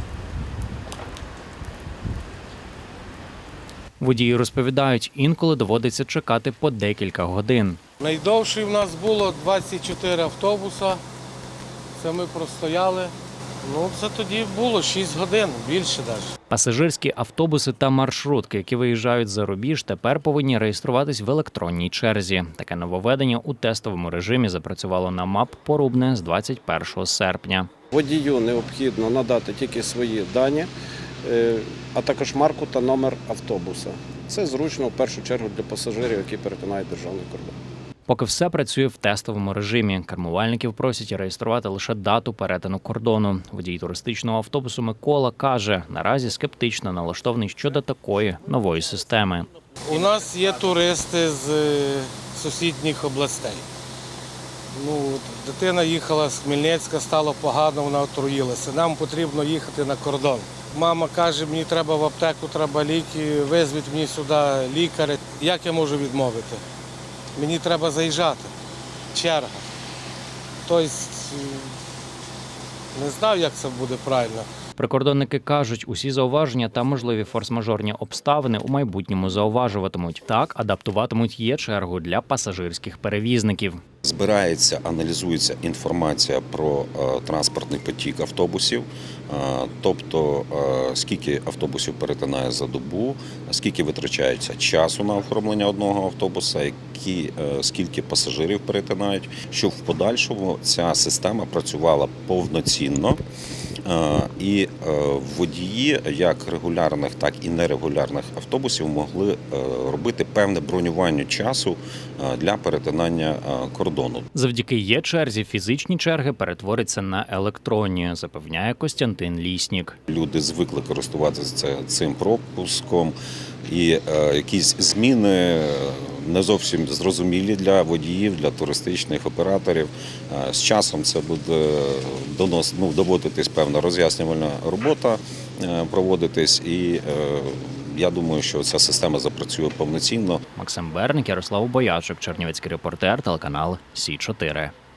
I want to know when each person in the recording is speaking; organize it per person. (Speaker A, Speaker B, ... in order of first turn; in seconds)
Speaker A: 4.0-7.8, 16.5-27.7, 38.1-49.5, 74.8-83.8, 114.3-120.0, 140.6-144.7
Speaker B: 8.0-11.0, 12.0-16.3, 49.9-53.6, 54.7-66.6, 67.4-68.5, 69.1-69.7, 70.7-71.7, 73.0-74.5
Speaker C: 27.9-30.7, 31.2-37.5
Speaker D: 84.0-103.2, 103.9-114.3, 120.1-140.4